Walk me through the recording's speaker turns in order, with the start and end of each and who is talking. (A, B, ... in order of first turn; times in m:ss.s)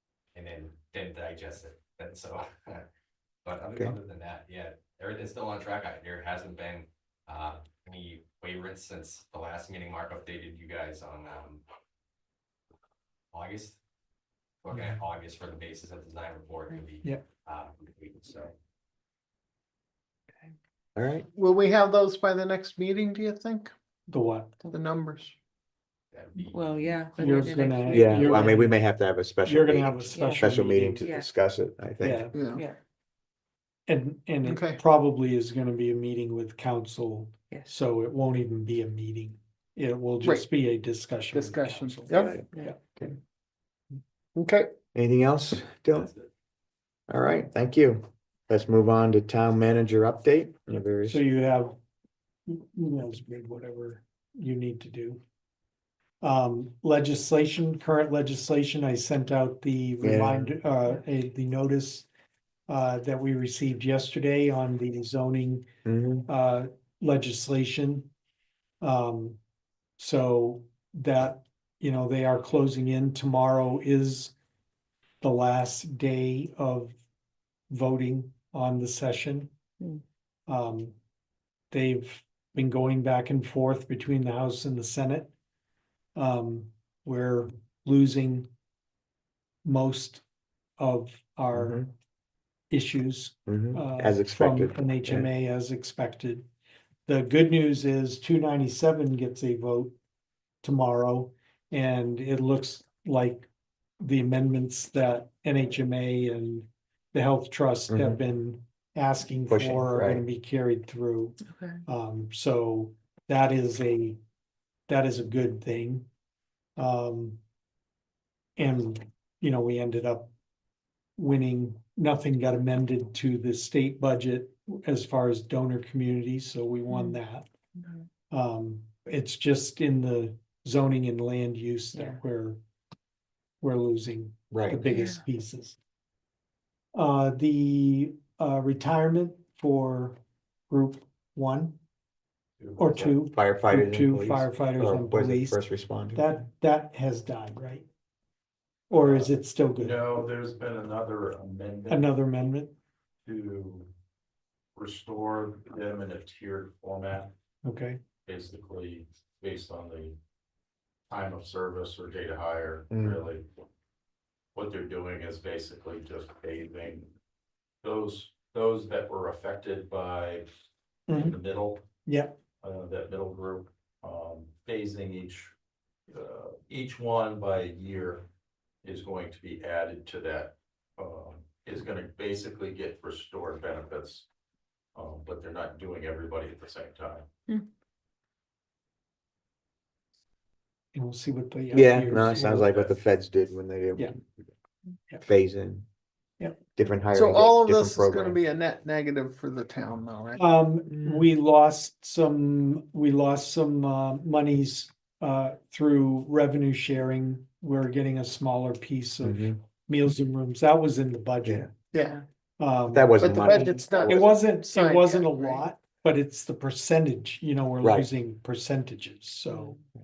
0:00.4-0:02.9 A
0:03.4-0:11.6 A
0:13.3-0:13.8 A
0:14.6-0:18.5 A
0:21.0-0:21.3 B
0:21.3-0:23.7 C
0:24.1-0:24.7 D
0:24.7-0:25.4 C
0:26.1-0:26.9 A
0:26.4-0:28.6 E
0:27.2-0:28.8 D
0:27.9-0:32.3 B
0:29.5-0:31.0 D
0:30.1-0:30.5 E
0:31.0-0:31.3 E
0:32.0-0:32.4 D
0:32.3-0:32.6 C
0:32.5-0:32.8 E
0:33.9-0:43.1 D
0:34.4-0:34.8 C
0:37.5-0:37.8 E
0:41.3-0:42.4 C
0:42.1-0:42.4 B
0:44.4-0:44.7 C
0:45.0-0:46.1 B
0:47.1-0:51.2 B
0:51.1-0:51.8 D
0:52.5-0:55.2 D
0:56.2-1:02.1 D
1:00.0-1:00.6 B
1:02.7-1:05.7 D
1:05.9-1:06.3 B
1:06.3-1:08.1 D
1:08.8-1:09.4 D
1:10.0-1:14.3 D
1:15.2-1:17.0 D
1:17.7-1:19.5 D
1:20.5-1:21.0 D
1:21.7-1:25.3 D
1:26.2-1:28.5 D
1:29.6-1:30.2 D
1:30.8-1:31.8 D
1:31.5-1:31.9 B
1:32.7-1:36.5 D
1:33.5-1:35.3 B
1:37.1-1:39.9 D
1:40.6-1:43.5 D
1:44.0-1:54.2 D
1:47.9-1:48.2 B
1:49.5-1:50.2 B
1:51.5-1:51.8 E
1:54.9-1:56.1 D
1:56.8-1:57.4 D
1:58.6-2:00.3 D
2:01.2-2:07.5 D
2:06.9-2:07.2 E
2:07.8-2:08.1 E
2:08.3-2:12.6 D
2:13.6-2:15.8 D
2:14.5-2:14.8 B
2:14.9-2:15.2 E
2:16.9-2:20.2 D
2:20.7-2:21.8 D
2:22.6-2:23.2 F
2:22.8-2:25.6 D
2:23.3-2:26.3 B
2:26.2-2:27.9 D
2:28.9-2:30.0 D
2:29.0-2:32.1 F
2:31.9-2:32.8 D
2:33.2-2:33.9 F
2:34.8-2:37.3 F
2:37.6-2:38.0 D
2:38.3-2:40.2 F
2:41.1-2:43.4 F
2:42.9-2:43.2 B
2:44.6-2:47.1 F
2:47.8-2:50.5 F
2:51.1-2:51.4 D
2:51.1-2:51.8 F
2:52.1-2:52.4 D
2:52.6-2:55.5 F
2:56.1-2:58.3 F
2:58.8-3:04.3 F
3:05.0-3:07.3 F
3:10.9-3:12.7 D
3:11.7-3:14.2 B
3:12.2-3:13.0 F
3:15.3-3:15.9 B
3:16.8-3:18.4 B
3:17.1-3:20.4 C
3:20.4-3:31.7 D
3:21.0-3:21.3 B
3:29.2-3:29.6 B
3:31.4-3:31.7 B
3:31.9-3:32.2 C
3:32.6-3:39.8 D
3:32.9-3:34.2 B
3:33.2-3:35.7 C
3:37.8-3:38.1 B